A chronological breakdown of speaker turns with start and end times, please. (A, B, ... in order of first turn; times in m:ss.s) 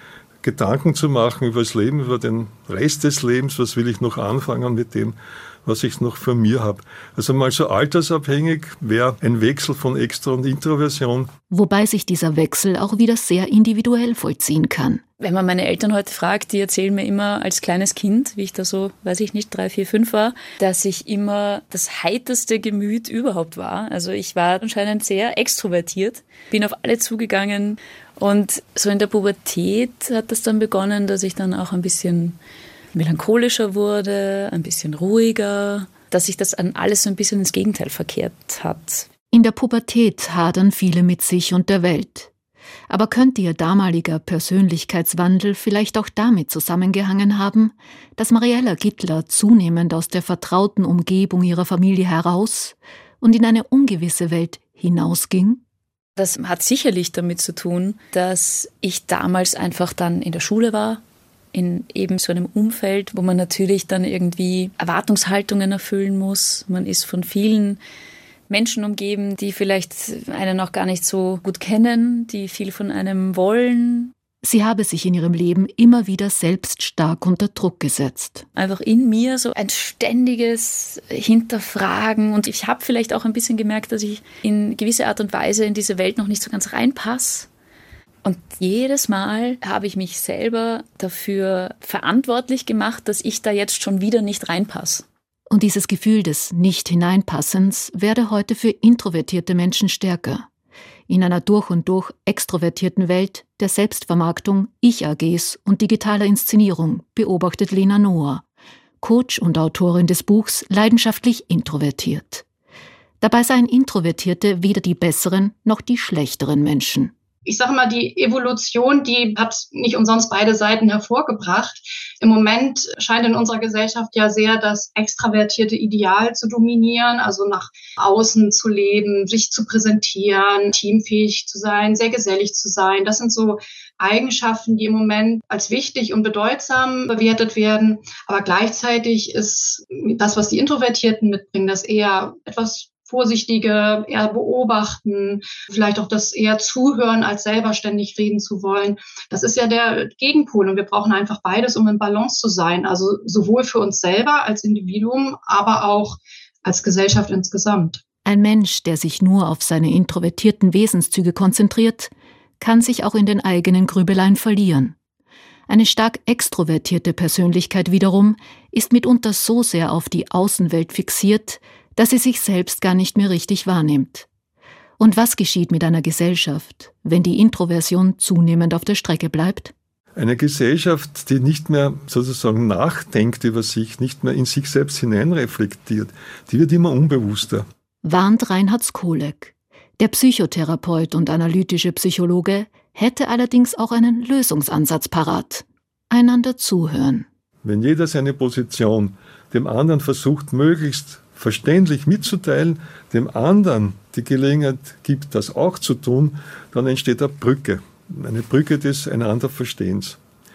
0:00.4-0:11.3 A
0:11.5-0:15.0 B
0:15.2-0:32.4 C
0:32.9-0:39.1 C
0:39.3-0:42.3 B
0:42.9-0:55.6 B
0:56.2-1:01.0 C
1:01.5-1:07.8 C
1:08.5-1:14.1 C
1:14.4-1:18.4 B
1:18.6-1:27.5 C
1:28.2-1:35.0 C
1:35.5-1:40.5 B
1:41.1-1:48.4 B
1:49.0-1:52.4 B
1:53.2-1:57.1 B
1:57.4-2:38.0 D
2:38.2-2:45.0 B
2:45.7-2:54.3 B
2:55.0-2:59.7 B
3:00.2-3:07.6 A
3:08.0-3:17.3 B
3:17.6-3:30.2 A